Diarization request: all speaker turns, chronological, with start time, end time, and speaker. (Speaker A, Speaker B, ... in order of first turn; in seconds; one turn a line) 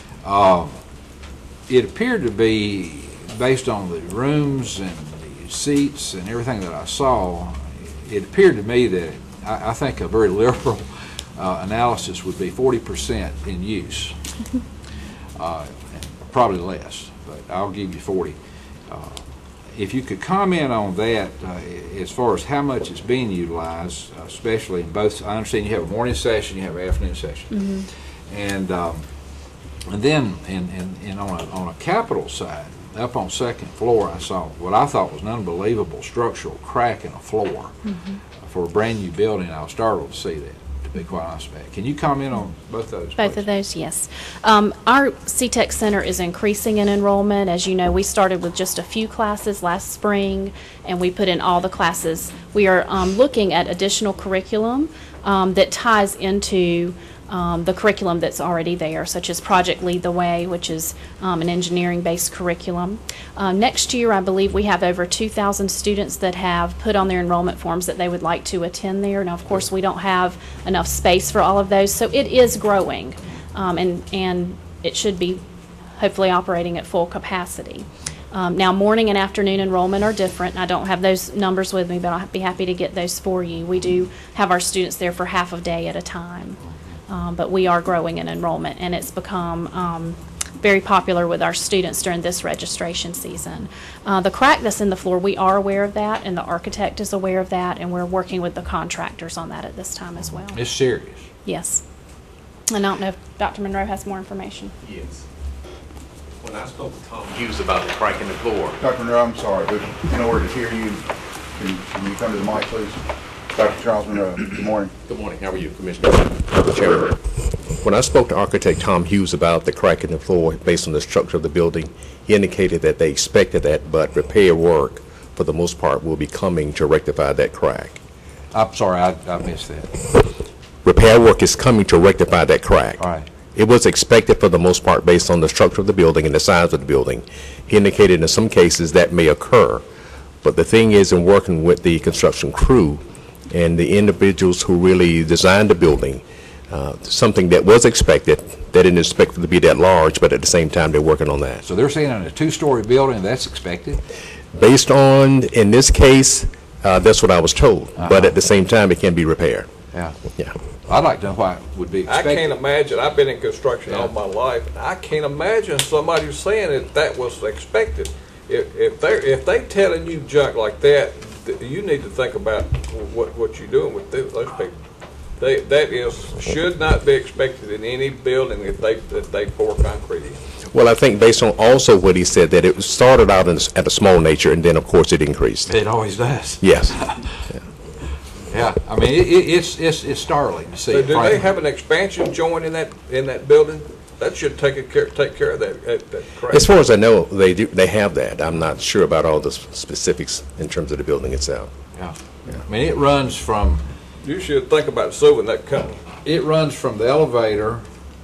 Speaker A: 0.2-0.8
Speaker A: 1.7-14.2
Speaker A: 15.3-18.4
Speaker A: 18.9-29.0
Speaker B: 27.5-27.9
Speaker A: 29.9-37.8
Speaker B: 37.9-38.2
Speaker A: 38.4-43.5
Speaker B: 43.2-75.4
Speaker B: 76.0-100.6
Speaker A: 100.2-101.3
Speaker B: 101.5-101.8
Speaker B: 102.7-104.7
Speaker C: 106.4-108.7
Speaker D: 108.8-111.0
Speaker D: 111.5-113.0
Speaker D: 113.5-114.9
Speaker C: 115.1-128.0
Speaker A: 128.5-130.3
Speaker C: 130.8-139.8
Speaker A: 133.0-133.3
Speaker C: 140.4-151.6
Speaker A: 151.6-154.0
Speaker C: 154.5-159.7
Speaker A: 157.9-158.3
Speaker A: 159.9-160.2
Speaker A: 160.8-162.5
Speaker E: 162.1-174.7
Speaker A: 163.8-164.1
Speaker E: 175.4-180.4
Speaker C: 180.7-185.8
Speaker A: 185.7-187.4
Speaker C: 186.6-187.6
Speaker A: 188.5-191.6
Speaker E: 190.9-196.7
Speaker C: 196.5-201.7
Speaker A: 201.9-203.8
Speaker E: 204.2-206.0
Speaker A: 206.2-207.8